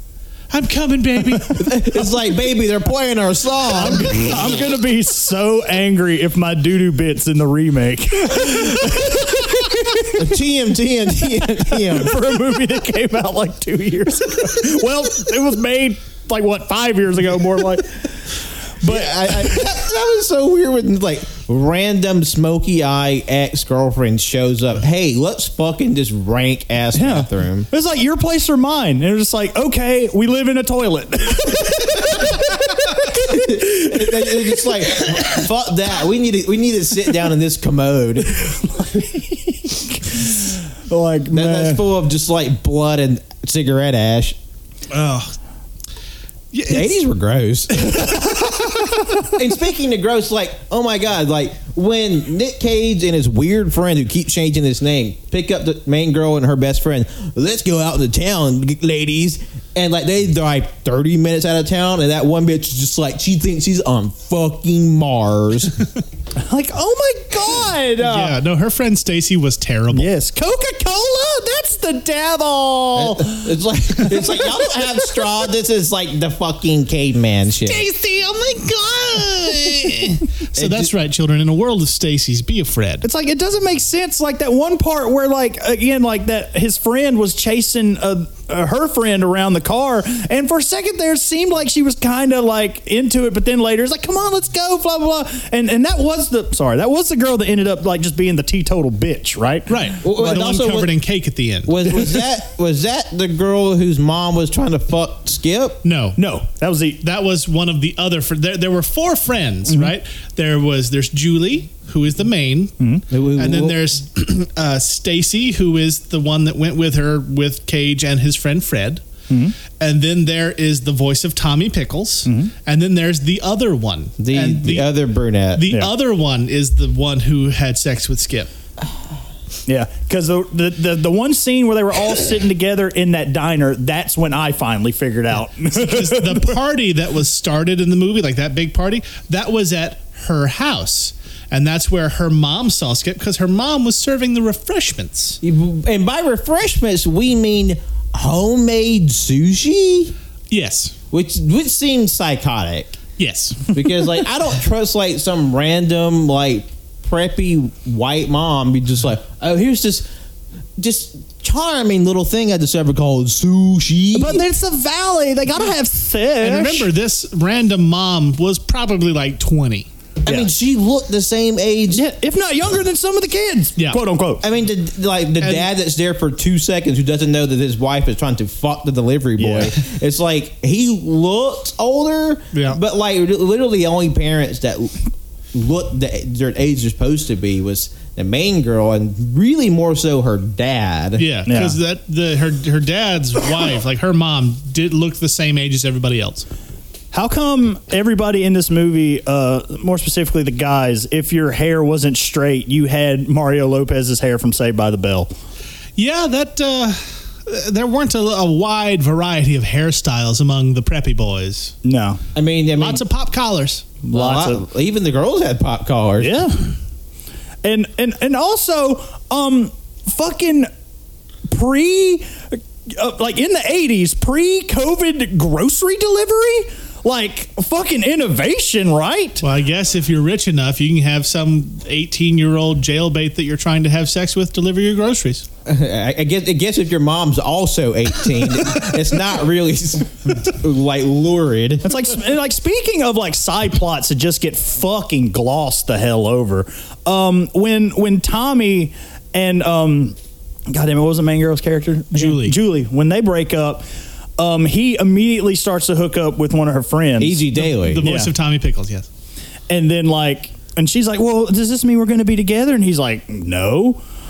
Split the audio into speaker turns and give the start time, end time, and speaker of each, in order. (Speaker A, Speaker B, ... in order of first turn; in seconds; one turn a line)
Speaker A: 0.5-1.7
Speaker B: 1.5-4.6
Speaker C: 3.7-10.3
Speaker B: 10.1-12.2
Speaker C: 11.3-19.8
Speaker B: 18.8-27.7
Speaker C: 26.9-35.1
Speaker B: 33.2-38.5
Speaker C: 38.3-41.9
Speaker B: 41.3-44.4
Speaker A: 44.9-45.4
Speaker A: 46.5-47.0
Speaker B: 46.7-48.1
Speaker A: 47.8-48.9
Speaker C: 48.0-48.4
Speaker B: 49.2-65.7
Speaker C: 66.4-68.4
Speaker A: 68.0-70.1
Speaker C: 69.9-73.5
Speaker B: 72.9-77.8
Speaker A: 77.6-83.0
Speaker B: 80.5-80.9
Speaker C: 83.0-100.0
Speaker A: 99.7-102.0
Speaker B: 100.0-100.9
Speaker B: 101.7-105.8
Speaker A: 105.8-106.2
Speaker C: 106.2-107.0
Speaker A: 107.0-112.7
Speaker C: 112.8-113.0
Speaker B: 113.1-113.8
Speaker A: 113.4-119.0
Speaker C: 119.3-119.5
Speaker A: 119.8-124.9
Speaker C: 122.2-122.5
Speaker B: 124.2-125.6
Speaker A: 125.5-128.5
Speaker C: 125.7-125.9
Speaker C: 129.7-136.6
Speaker A: 135.6-145.4
Speaker B: 145.4-150.1
Speaker A: 150.5-150.9
Speaker B: 151.1-153.0
Speaker A: 153.2-153.8
Speaker B: 153.7-160.1
Speaker B: 160.8-164.4
Speaker C: 164.1-166.9
Speaker A: 166.4-169.9
Speaker B: 170.2-172.0
Speaker C: 171.9-174.4
Speaker B: 174.4-191.2
Speaker A: 175.4-175.7
Speaker C: 179.4-179.7
Speaker A: 182.5-182.8
Speaker A: 191.2-196.4
Speaker C: 191.4-191.8
Speaker C: 197.1-205.3
Speaker A: 205.9-211.7
Speaker C: 211.8-212.2
Speaker B: 212.3-213.0
Speaker A: 212.8-213.9
Speaker C: 214.0-214.6
Speaker B: 214.1-216.5
Speaker C: 216.2-216.7
Speaker C: 217.6-220.7
Speaker C: 221.4-229.4
Speaker A: 229.4-235.5
Speaker B: 235.6-241.9
Speaker C: 241.8-250.2
Speaker C: 250.7-253.8
Speaker A: 252.1-252.6
Speaker C: 254.4-257.5
Speaker B: 257.2-258.1
Speaker A: 257.6-259.1
Speaker C: 258.0-258.3
Speaker C: 259.7-264.0